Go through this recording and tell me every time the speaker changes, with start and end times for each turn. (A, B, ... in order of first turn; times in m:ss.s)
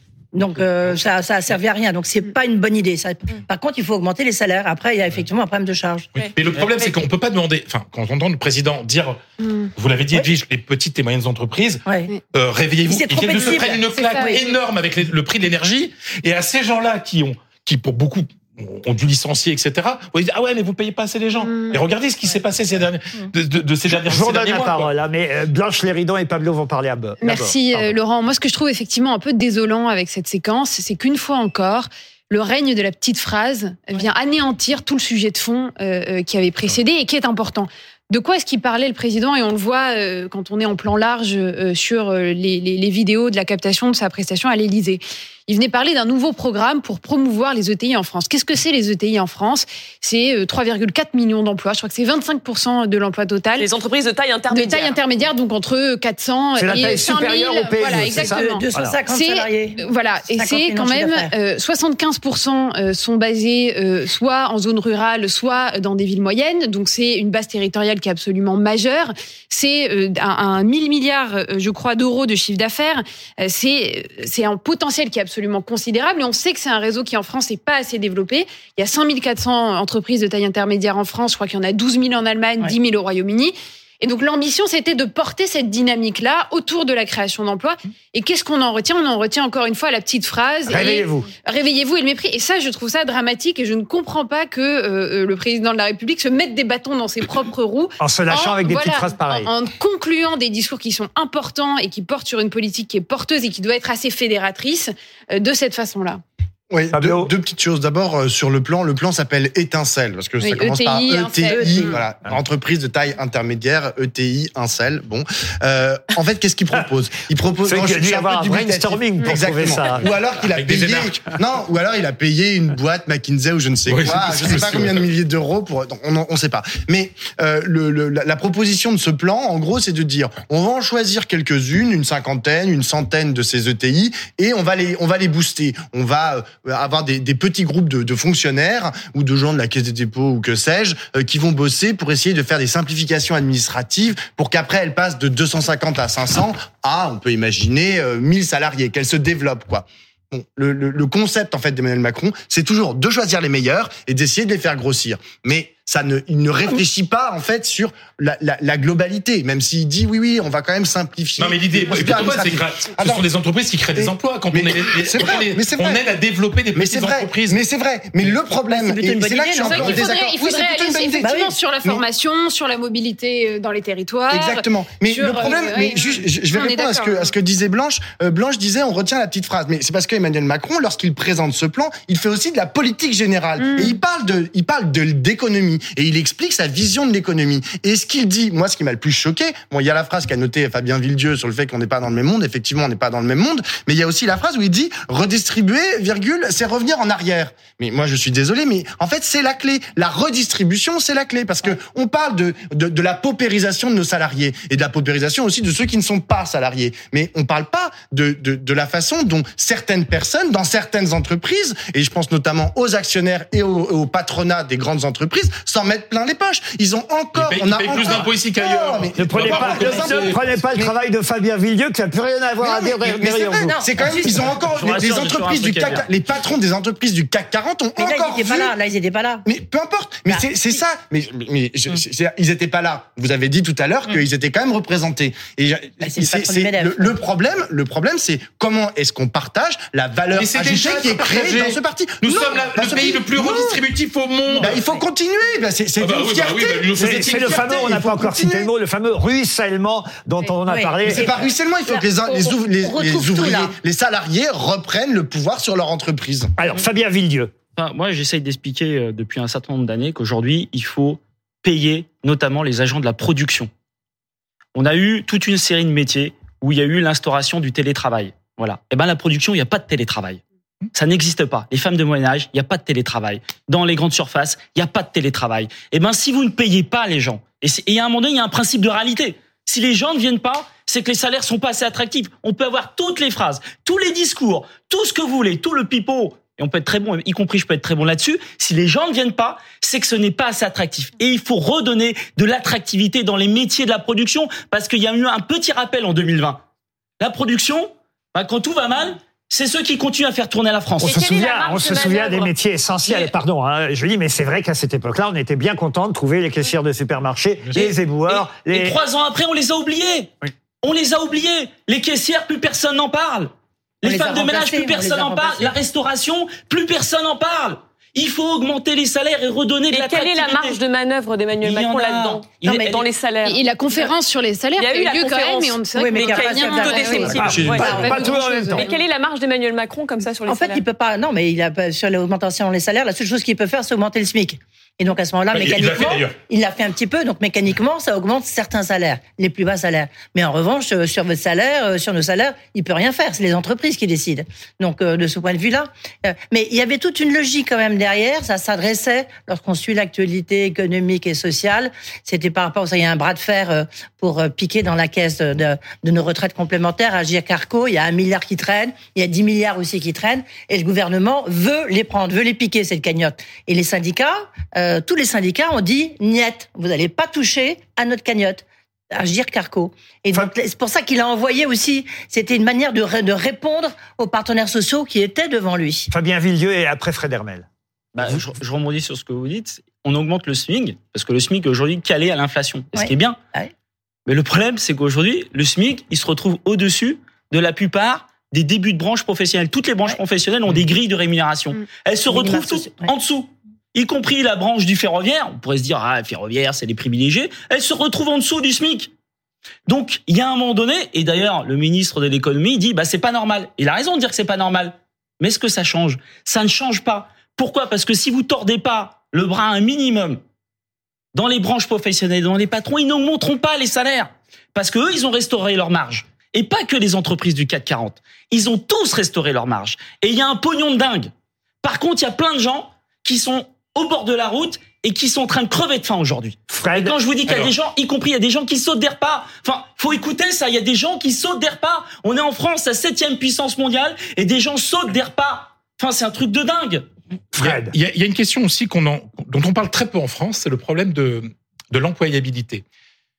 0:00.3-0:06.1 A
0:06.1-0:09.2 B
0:09.8-0:11.8 B
0:12.3-0:24.9 B
0:12.9-0:14.4 A
0:13.4-0:14.5 C
0:21.5-0:21.8 C
0:23.9-0:27.9 D
0:27.2-0:53.7 C
0:53.6-0:55.0 E
0:54.5-1:46.2 C
0:56.6-0:59.0 D
0:57.9-1:01.3 A
1:30.6-1:31.3 D
1:38.0-1:39.5 D
1:46.7-2:43.2 F
1:46.9-1:47.3 D
1:50.4-1:52.0 C
1:51.5-1:52.0 A
1:57.6-2:00.1 D
2:00.4-2:01.2 B
2:03.9-2:05.0 B
2:41.4-2:47.6 B
2:44.0-2:46.0 F
2:46.7-2:52.0 F
2:48.7-2:50.2 A
2:49.6-2:57.3 C
2:51.2-2:51.5 A
2:54.3-3:40.9 F
3:03.6-3:04.0 C
3:37.4-3:40.4 B
3:39.2-3:43.7 D
3:42.6-3:48.7 F
3:43.2-3:44.5 A
3:44.7-3:46.1 G
3:48.0-3:49.4 A
3:49.4-4:03.8 F
3:50.3-3:50.8 A
3:56.0-3:57.2 A
4:00.3-4:05.0 B
4:04.6-4:08.3 F
4:06.0-4:08.0 B
4:07.0-4:11.4 D
4:10.7-4:13.8 A
4:11.0-4:16.5 F
4:16.6-4:17.5 D
4:17.8-4:23.7 G
4:24.7-4:30.4 G
4:30.9-4:56.6 G
4:57.2-5:01.2 G
5:01.0-5:02.5 E
5:01.0-5:09.0 D
5:07.7-5:13.5 G
5:14.0-5:20.8 G
5:14.0-5:15.7 A
5:19.9-5:23.6 E
5:21.6-5:23.0 G
5:22.6-5:23.0 A
5:23.4-5:28.9 C
5:24.8-5:30.8 E
5:25.9-5:28.2 A
5:27.2-5:28.9 D
5:30.5-6:16.1 A
5:35.5-5:36.3 B
6:16.1-6:17.7 D
6:18.1-6:23.4 G
6:22.9-6:23.7 A
6:24.2-6:39.1 G
6:32.3-6:33.1 A
6:39.9-6:50.4 G
6:51.3-7:01.3 G
7:01.8-7:17.1 G
7:06.7-7:07.2 D
7:17.5-7:17.9 D
7:17.6-7:22.8 B